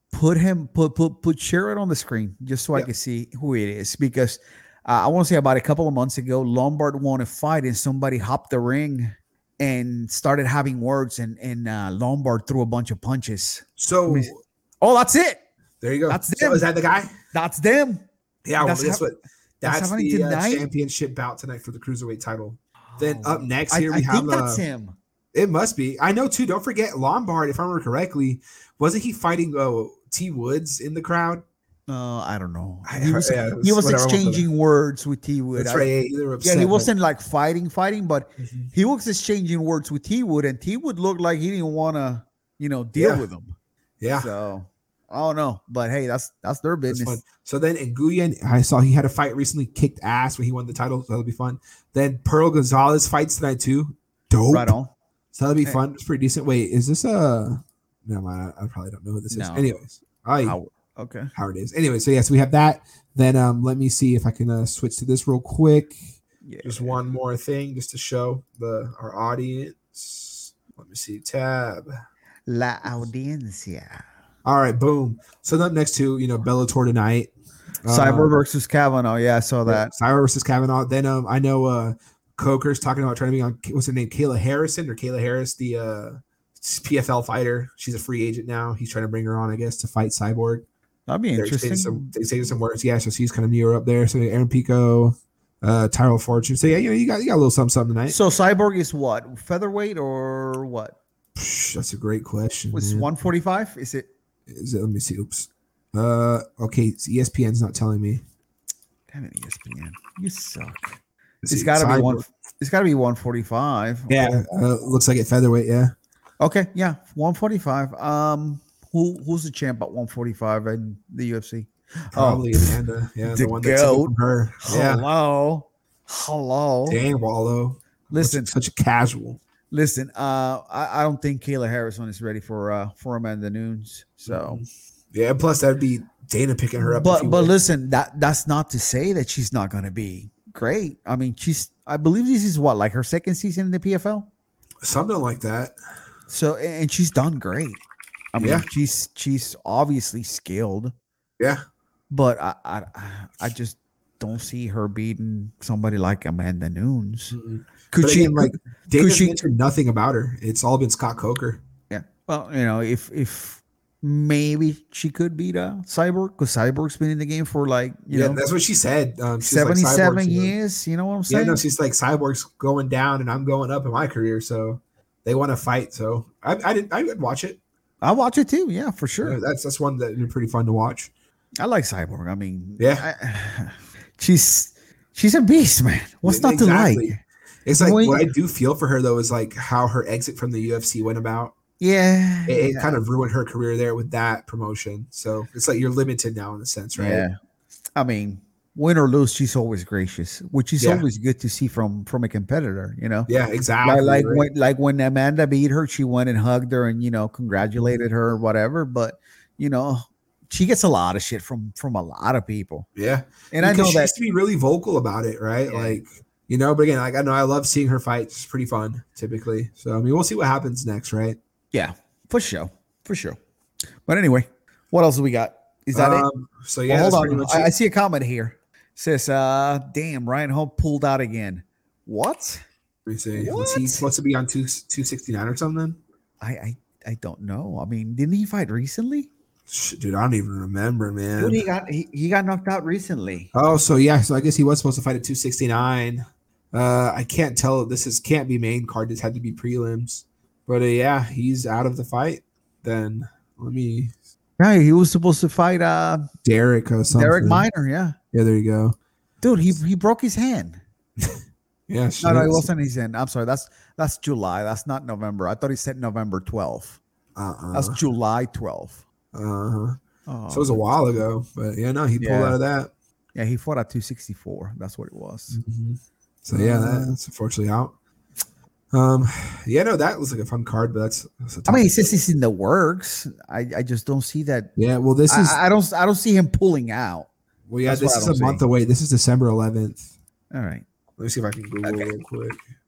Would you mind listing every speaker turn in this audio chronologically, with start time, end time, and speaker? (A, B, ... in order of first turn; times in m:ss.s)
0:00.1-0:14.3 A
0:13.8-0:14.4 B
0:14.8-0:15.4 A
0:15.8-0:17.1 B
0:16.1-0:16.6 A
0:17.3-0:18.0 A
0:18.4-0:24.6 B
0:18.6-0:19.0 A
0:19.6-0:20.7 A
0:22.9-0:25.0 A
0:25.3-0:31.4 B
0:31.9-0:35.9 A
0:32.9-0:34.5 B
0:35.6-0:36.9 B
0:36.4-0:43.6 A
0:38.4-0:38.7 B
0:43.0-0:43.2 B
0:44.0-0:44.3 B
0:44.1-0:47.2 A
0:46.9-0:54.7 B
0:54.5-0:54.9 A
0:55.3-1:00.6 B
0:59.3-0:59.7 A
1:00.4-1:01.3 A
1:01.4-1:06.0 B
1:06.4-1:07.0 A
1:06.6-1:11.9 B
1:12.5-1:14.0 A
1:14.4-1:17.3 B
1:17.8-1:18.3 B
1:17.9-1:19.9 A
1:19.7-1:30.7 B
1:31.1-1:32.1 A
1:31.4-1:38.2 B
1:38.1-1:41.0 A
1:41.4-1:43.1 B
1:42.7-1:44.1 A
1:44.5-1:48.2 B
1:49.1-1:54.4 A
1:51.4-1:52.2 B
1:54.1-1:55.9 B
1:56.4-2:07.0 A
2:02.1-2:05.0 B
2:06.9-2:09.4 B
2:08.1-2:08.6 A
2:09.7-2:14.6 A
2:14.3-2:17.5 B
2:16.8-2:24.3 A
2:24.8-2:25.8 B
2:26.3-2:27.8 A
2:28.3-2:30.9 A
2:28.4-2:28.7 B
2:32.1-2:37.4 A
2:37.3-2:41.6 B
2:37.9-2:39.4 A
2:41.9-2:48.4 A
2:48.1-2:50.6 B
2:49.4-2:51.6 A
2:51.3-2:57.6 B
2:58.0-2:59.4 A
2:59.2-3:01.1 B
3:01.6-3:07.2 A
3:02.8-3:03.1 B
3:06.2-3:11.6 B
3:07.8-3:08.3 A
3:11.8-3:13.0 A
3:12.5-3:17.2 B
3:17.0-3:17.4 A
3:18.0-3:23.3 A
3:20.8-3:21.0 B
3:23.3-3:24.5 B
3:23.8-3:32.9 A
3:33.0-3:41.4 B
3:33.5-3:34.2 A
3:35.7-3:36.0 A
3:41.7-3:43.4 A
3:44.1-3:46.3 A
3:45.9-3:47.7 B
3:46.9-3:52.6 A
3:53.1-3:56.0 B
3:53.4-3:54.0 A
3:56.4-3:59.3 A
3:59.7-4:01.6 B
4:01.4-4:03.5 A
4:03.5-4:14.2 B
4:14.6-4:16.3 A
4:16.4-4:17.7 B
4:17.1-4:18.2 A
4:18.3-4:19.0 B
4:19.4-4:20.8 A
4:21.2-4:22.7 B
4:22.2-4:27.0 A
4:27.4-4:28.0 B
4:27.7-4:29.0 A
4:29.3-4:32.9 B
4:30.3-4:30.8 A
4:32.2-4:32.6 A
4:33.4-4:35.6 A
4:35.5-4:37.9 B
4:36.5-4:37.2 A
4:38.9-4:42.1 B
4:41.7-4:44.7 A
4:44.8-4:45.6 B
4:45.3-4:47.3 A
4:47.7-4:50.1 B
4:47.8-4:48.6 A
4:50.5-4:50.8 A
4:51.2-4:52.6 B